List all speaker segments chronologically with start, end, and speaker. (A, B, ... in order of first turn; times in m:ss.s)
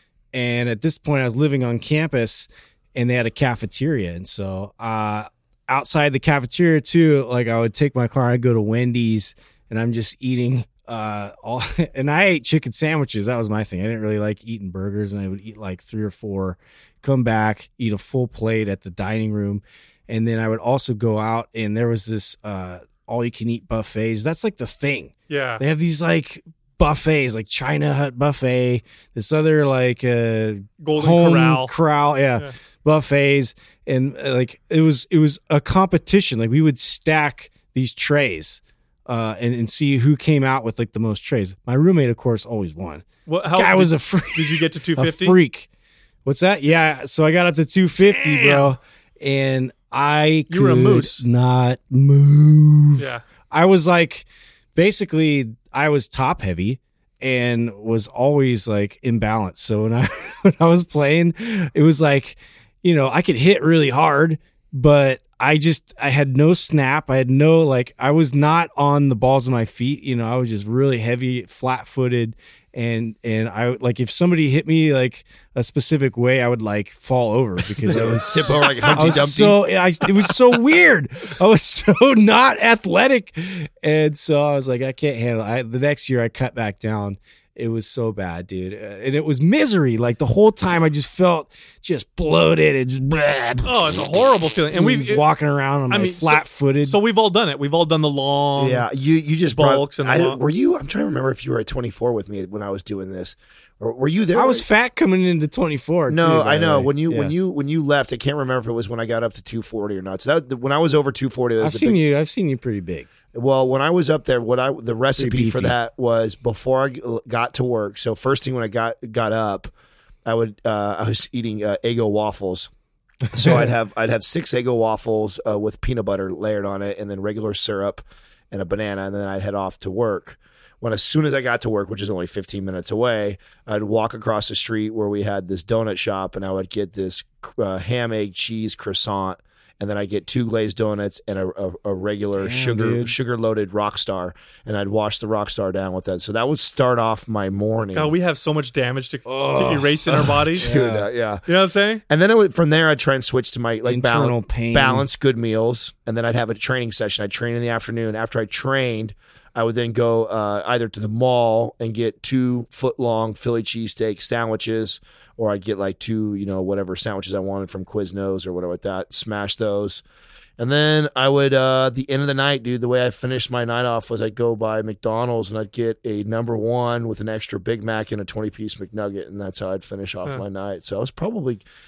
0:00.3-0:45.7 A
0:25.3-0:25.6 B
0:30.8-0:31.7 B
0:43.2-0:45.4 B
0:46.2-1:34.0 A
0:48.0-0:48.7 B
0:50.5-0:51.2 B
0:53.0-0:53.2 B
1:17.9-1:19.6 C
1:18.6-1:18.9 B
1:33.6-1:35.2 B
1:34.7-1:37.0 A
1:35.9-1:38.8 B
1:38.6-1:44.6 C
1:39.5-1:40.4 B
1:44.3-1:47.3 A
1:46.1-1:52.0 C
1:51.6-1:53.1 A
1:53.3-1:59.7 C
1:55.2-1:55.7 A
2:00.2-2:02.7 C
2:03.3-2:28.1 C
2:22.4-2:23.1 A
2:27.9-2:30.7 B
2:29.2-2:31.1 A
2:30.6-2:31.4 C
2:31.4-2:32.0 B
2:32.1-2:50.0 C
2:33.8-2:35.0 A
2:50.6-3:01.6 C